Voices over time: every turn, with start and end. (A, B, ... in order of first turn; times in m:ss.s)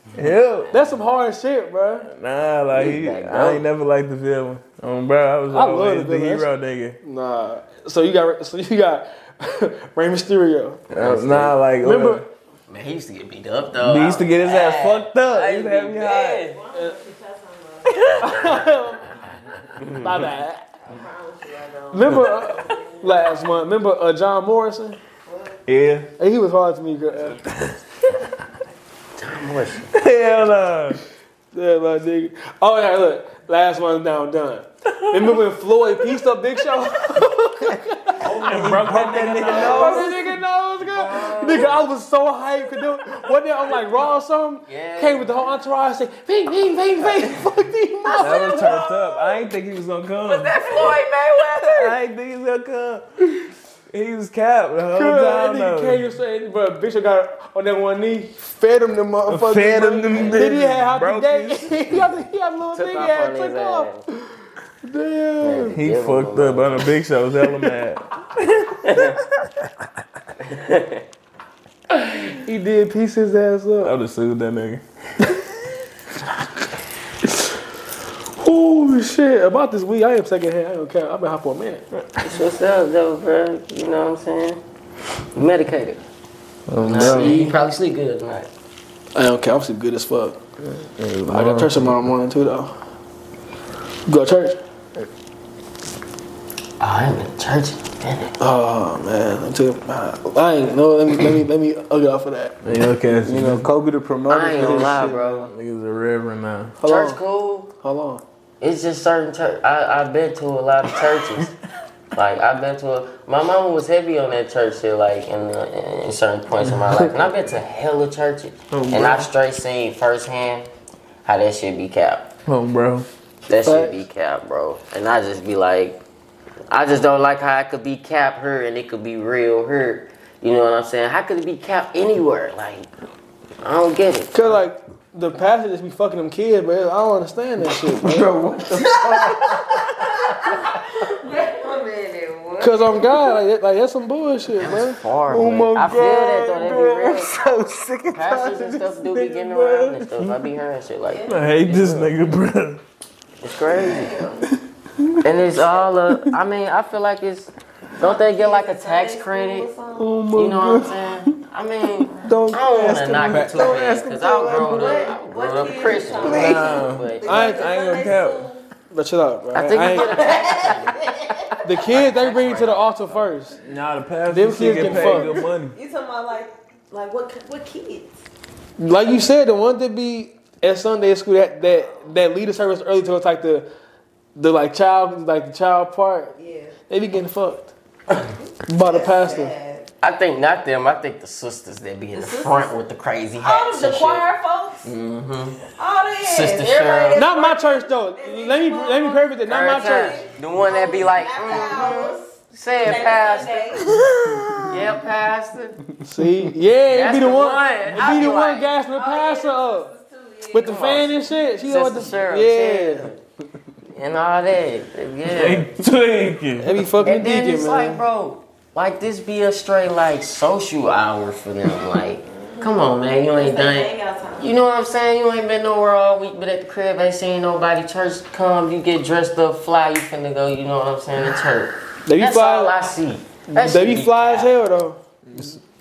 0:00.1-0:00.7 A
0:00.7-0:02.1 B
0:02.0-0:07.0 A
0:02.7-0:03.6 C
0:05.5-0:06.4 B
0:07.0-0:10.9 B
0:10.9-0:11.6 C
0:10.9-0:12.2 A
0:11.8-0:12.2 B
0:12.7-0:16.6 C
0:13.8-0:16.4 A
0:16.5-0:18.6 D
0:17.9-0:18.2 A
0:18.2-0:19.2 B
0:19.8-0:20.1 A
0:19.9-0:20.6 B
0:20.9-0:23.7 D
0:21.9-0:25.0 B
0:25.2-0:25.6 D
0:25.7-0:26.1 A
0:26.2-0:27.4 B
0:27.3-0:27.7 A
0:29.2-0:29.9 C
0:29.9-0:31.0 A
0:31.5-0:48.8 B
0:34.9-0:35.4 A
0:38.2-0:40.3 A
0:38.4-0:40.2 E
0:39.5-0:40.0 C
0:40.9-0:41.8 C
0:44.7-0:45.3 C
0:48.2-0:49.4 C
0:48.2-0:50.9 A
0:50.2-0:52.0 C
0:51.5-0:53.0 A
0:53.9-0:56.1 A
0:54.9-1:05.8 B
0:59.3-1:00.6 E
0:59.3-1:02.1 A
1:02.7-1:04.0 C
1:05.4-1:06.9 C
1:05.7-1:09.2 A
1:07.4-1:07.7 B
1:08.8-1:09.2 C
1:10.4-1:11.0 C
1:12.0-1:13.9 B
1:13.8-1:14.8 A
1:18.4-1:21.8 B
1:22.2-1:24.6 C
1:25.3-1:26.0 C
1:26.7-1:27.4 A
1:26.8-1:28.5 C
1:26.9-1:27.6 B
1:29.1-1:30.4 B
1:31.0-1:31.9 A
1:31.3-1:32.7 B
1:34.1-1:34.6 B
1:36.8-1:38.4 C
1:38.4-1:42.6 B
1:42.6-1:43.6 A
1:43.2-1:45.4 E
1:44.3-1:45.5 C
1:44.6-1:44.9 A
1:45.5-1:46.8 A
1:46.8-1:47.2 B
1:46.8-1:47.7 C
1:47.8-1:48.2 B
1:48.6-1:51.5 C
1:52.1-2:00.7 C
1:58.7-1:59.3 A
2:01.2-2:02.3 C
2:02.4-2:03.0 A
2:03.5-2:06.0 C
2:03.6-2:04.0 B
2:06.7-2:12.9 C
2:13.6-2:14.6 C
2:14.3-2:18.2 B
2:17.7-2:19.8 E
2:19.0-2:23.2 D
2:22.6-2:25.0 B
2:24.6-2:32.1 C
2:25.3-2:30.0 E
2:31.0-2:31.3 D
2:31.3-2:32.8 A
2:33.4-2:34.1 C
2:33.7-2:34.5 D
2:35.2-2:39.7 C
2:38.0-2:40.1 D
2:39.9-2:41.0 E
2:40.3-2:47.3 C
2:42.2-2:45.1 E
2:43.3-2:43.7 A
2:44.5-2:48.6 D
2:46.2-2:46.8 E
2:46.6-2:48.5 A
2:47.3-2:47.7 B
2:48.9-2:50.2 B
2:49.5-2:53.3 C
2:49.8-2:51.4 D
2:51.6-2:53.6 B
2:53.6-2:55.8 A
2:54.3-2:55.3 B
2:54.8-2:58.2 D
2:58.8-3:03.7 B
3:04.3-3:06.4 B
3:06.4-3:06.7 D
3:06.9-3:07.7 B
3:08.4-3:09.8 D
3:08.7-3:09.5 B
3:10.0-3:14.3 C
3:12.1-3:12.7 D
3:13.4-3:14.9 D
3:14.8-3:15.6 C
3:15.8-3:23.8 D
3:16.2-3:17.3 C
3:17.1-3:20.2 B
3:19.4-3:23.8 C
3:23.9-3:24.8 E
3:24.7-3:25.8 C
3:26.0-3:29.9 B
3:26.9-3:28.7 C
3:27.9-3:28.4 D
3:28.9-3:31.0 D
3:30.5-3:33.1 B
3:30.6-3:33.2 C
3:33.9-3:35.7 C
3:35.3-3:36.8 A
3:36.6-3:38.0 B
3:37.0-3:54.8 C
3:43.3-3:44.5 D
3:52.0-3:52.7 B
3:53.5-3:55.0 B